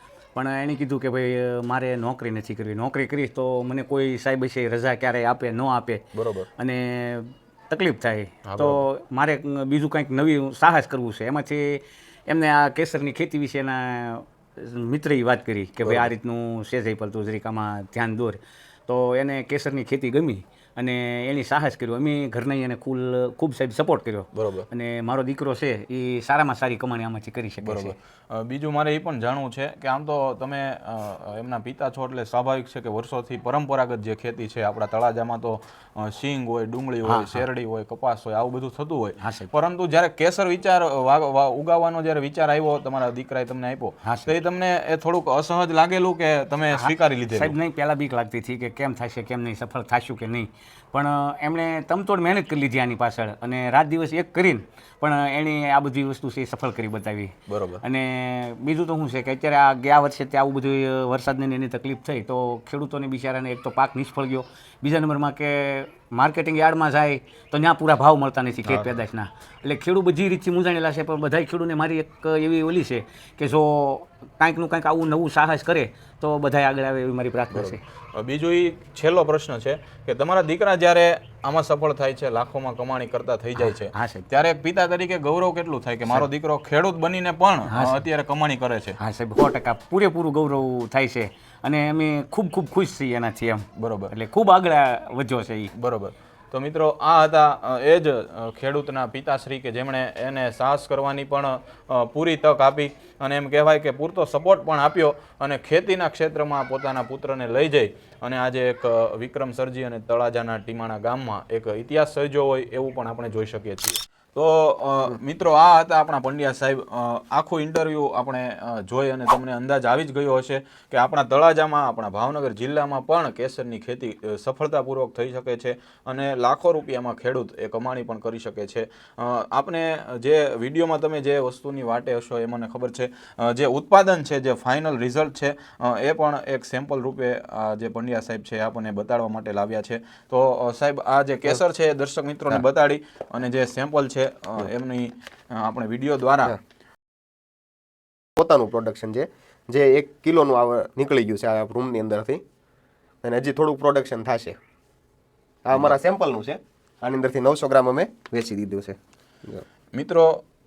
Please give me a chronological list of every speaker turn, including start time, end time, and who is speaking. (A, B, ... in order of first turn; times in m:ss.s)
0:00.4-0:06.0 A
0:06.1-0:06.5 B
0:06.6-0:27.9 A
0:08.4-0:08.9 B
0:15.8-0:16.1 B
0:24.4-0:24.7 B
0:27.6-0:47.6 B
0:37.0-0:37.4 A
0:39.2-0:39.5 A
0:44.0-0:44.3 A
0:46.7-1:17.8 A
0:57.5-0:57.8 B
1:08.6-1:08.9 B
1:17.5-1:29.0 B
1:23.6-1:24.3 A
1:27.7-1:28.0 A
1:29.0-1:35.7 A
1:33.8-1:34.1 B
1:35.8-2:26.6 B
2:28.4-2:32.4 C
2:33.2-2:34.6 C
2:35.6-2:39.6 C
2:39.9-2:40.4 B